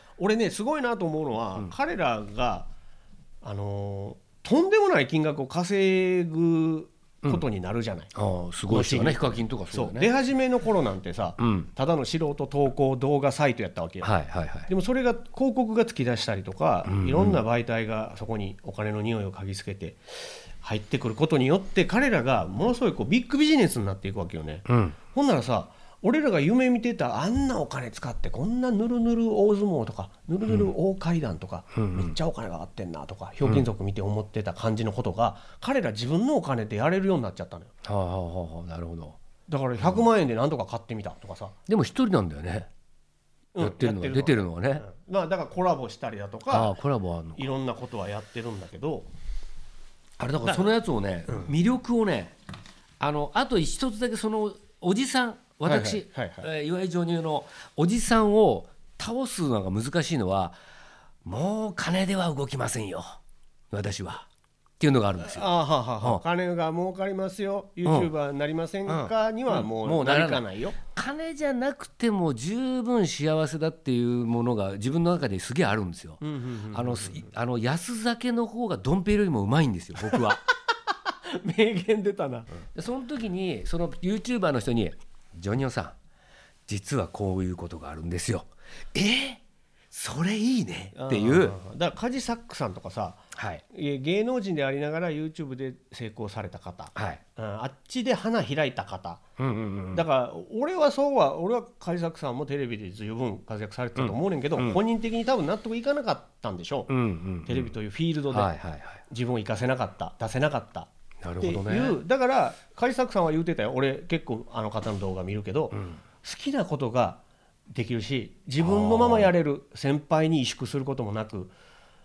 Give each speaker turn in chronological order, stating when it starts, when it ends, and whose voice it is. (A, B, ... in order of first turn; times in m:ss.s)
0:00.2-0:02.7 A
0:03.4-0:08.1 A
0:08.1-0:10.1 B
0:08.7-0:14.1 A
0:11.4-0:11.7 B
0:14.0-0:14.7 B
0:14.7-0:37.7 A
0:16.8-0:17.4 B
0:24.7-0:25.0 B
0:31.8-0:32.1 B
0:37.8-0:39.2 B
0:39.5-0:41.6 A
0:39.8-0:40.1 B
0:41.7-0:42.7 B
0:43.6-0:46.8 A
0:43.6-0:44.9 B
0:46.5-0:47.5 B
0:47.4-0:49.1 A
0:50.2-0:52.3 B
0:50.4-0:50.8 A
0:53.0-1:00.6 B
0:55.6-0:56.5 A
1:01.2-1:03.2 B
1:03.7-1:04.3 B
1:04.8-1:06.2 B
1:05.2-1:10.8 A
1:07.8-1:08.1 B
1:08.9-1:20.4 B
1:16.2-1:17.3 A
1:20.0-1:20.3 A
1:20.9-1:22.6 A
1:22.8-1:26.0 B
1:26.7-1:31.6 B
1:30.9-1:39.2 A
1:33.4-1:33.6 B
1:37.0-1:37.2 B
1:39.4-1:40.0 B
1:39.9-1:46.9 A
1:44.0-1:44.8 B
1:46.9-1:47.7 B
1:47.4-1:48.5 A
1:48.3-1:49.0 B
1:49.1-2:01.5 A
1:51.2-1:52.0 B
1:55.7-1:56.0 B
1:58.6-1:59.3 B